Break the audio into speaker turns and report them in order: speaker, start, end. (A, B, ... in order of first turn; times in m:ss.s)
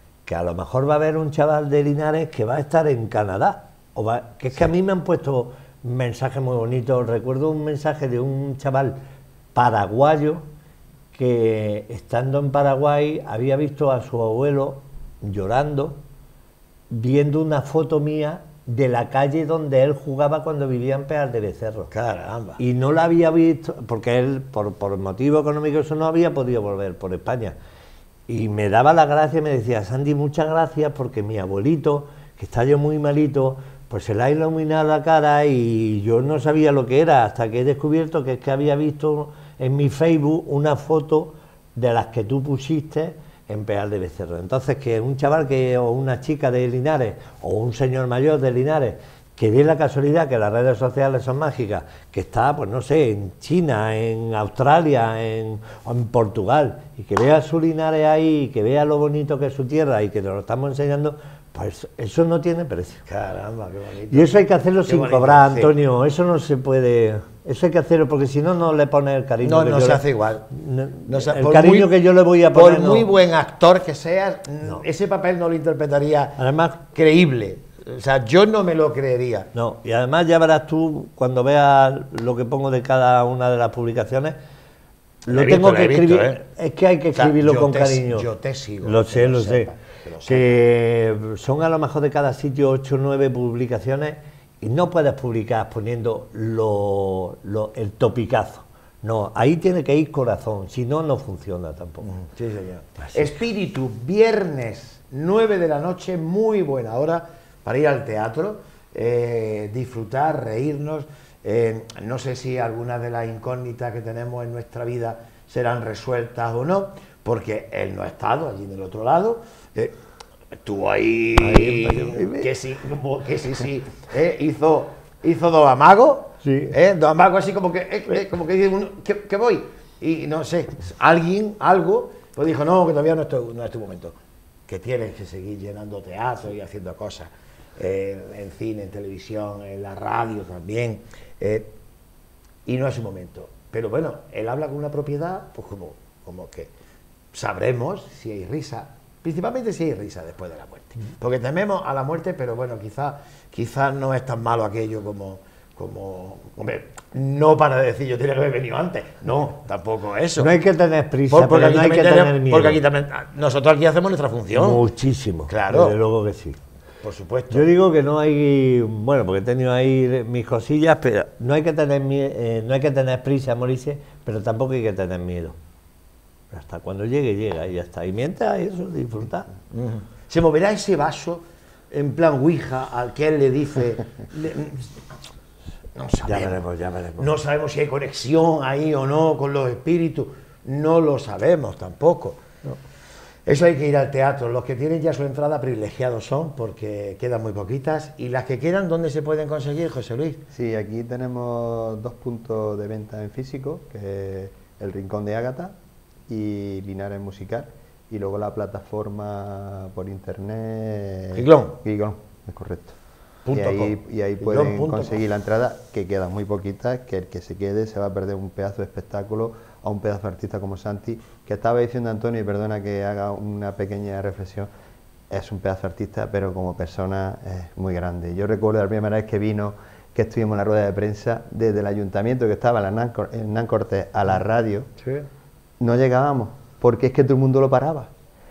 0:00.3-0:09.0 A
0:09.6-0:10.5 A
0:11.1-0:16.0 A
0:16.9-0:21.9 A
0:21.9-0:22.6 B
0:22.6-0:27.6 A
0:28.3-1:03.0 A
1:03.1-1:05.7 B
1:04.1-1:13.1 A
1:09.4-1:10.5 B
1:11.1-1:11.9 B
1:12.5-1:19.5 B
1:16.4-1:16.8 A
1:19.5-1:24.4 A
1:25.3-1:28.3 A
1:25.3-1:26.4 B
1:27.2-1:30.6 B
1:28.8-1:29.7 A
1:30.3-1:42.1 A
1:42.0-2:00.0 B
1:43.0-1:43.3 A
2:00.6-2:14.2 B
2:01.4-2:02.5 A
2:06.4-2:06.8 A
2:14.7-2:21.7 B
2:22.7-2:26.7 B
2:27.3-2:40.5 B
2:40.4-2:42.8 A
2:41.3-2:44.8 B
2:44.5-2:46.6 A
2:45.5-2:46.0 B
2:47.0-2:47.7 B
2:47.5-2:55.6 A
2:56.5-2:59.5 A
2:59.7-3:05.0 B
3:06.0-3:06.6 B
3:06.2-3:07.3 A
3:07.2-3:12.4 B
3:13.5-3:20.4 B
3:20.5-3:25.8 C
3:26.3-3:33.0 C
3:31.3-3:31.8 B
3:33.5-3:35.2 B
3:33.5-3:44.7 C
3:45.3-3:54.9 C
3:55.8-3:58.1 C